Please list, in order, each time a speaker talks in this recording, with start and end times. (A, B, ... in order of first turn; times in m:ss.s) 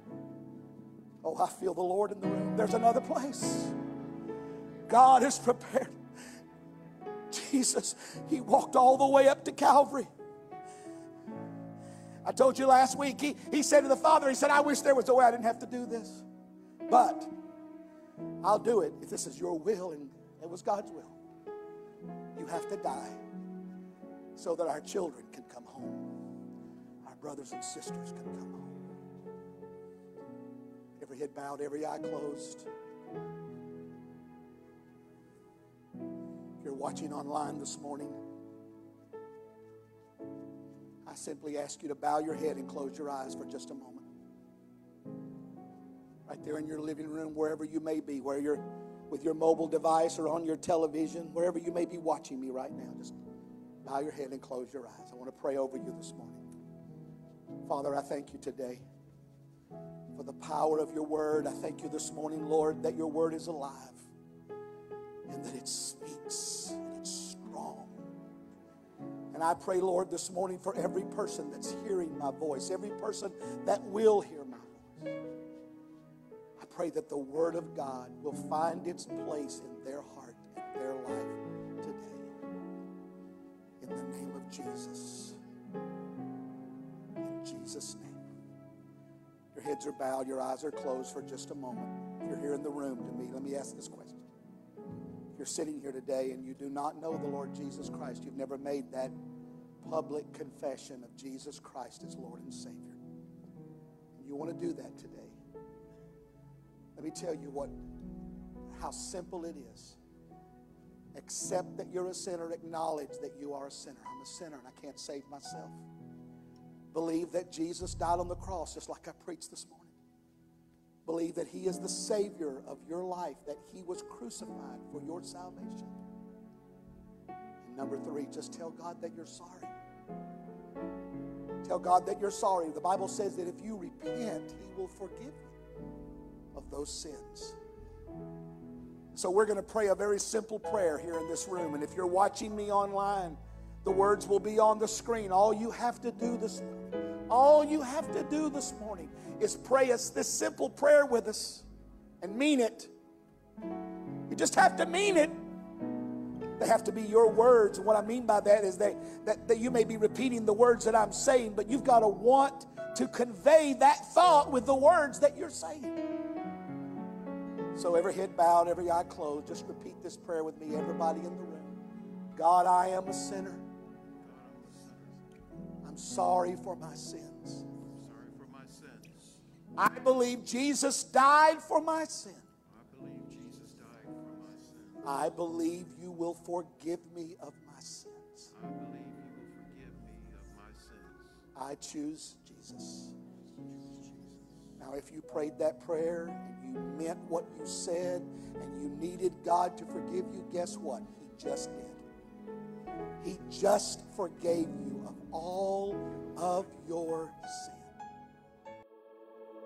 0:01.2-0:03.7 A
0:04.9-0:05.9 A
0:07.3-0:10.1 A
0:12.2-0:16.2 A
0:16.9-0:17.3 A
0:18.4-0:21.1 A
0:22.3-0:23.2 A
0:24.4-0:26.1 A
0:27.0-0:28.7 A
0:31.0-0:32.6 A
0:36.6-0:38.2 A
0:41.0-0:44.0 A
0:46.3-0:53.2 A
0:53.8-0:56.4 A
0:57.7-0:58.8 A
1:00.1-1:04.1 A
1:05.3-1:08.0 A
1:09.3-1:15.0 A
1:16.6-1:22.2 A
1:23.8-1:25.4 A
1:27.2-1:28.2 A
1:29.5-1:34.2 A
1:35.4-1:39.1 A
1:39.8-1:43.0 A
1:44.2-1:45.3 A
1:47.0-1:47.7 A
1:48.7-1:50.0 A
1:51.1-1:55.8 A
1:56.9-1:59.9 A
2:01.0-2:05.9 A
2:07.6-2:09.7 A
2:11.6-2:15.5 A
2:16.5-2:17.6 A
2:19.1-2:31.6 A
2:32.2-2:32.9 A
2:34.3-2:35.3 A
2:36.6-2:46.0 A
2:47.7-2:51.7 A
2:52.3-2:53.6 A
2:54.2-2:55.2 B
2:55.8-2:57.6 A
2:57.9-2:59.4 B
2:59.8-3:02.4 A
3:02.7-3:05.0 B
3:05.0-3:08.5 A
3:08.5-3:11.4 B
3:11.5-3:13.1 A
3:13.9-3:14.4 B
3:14.8-3:22.0 A
3:23.2-3:27.9 A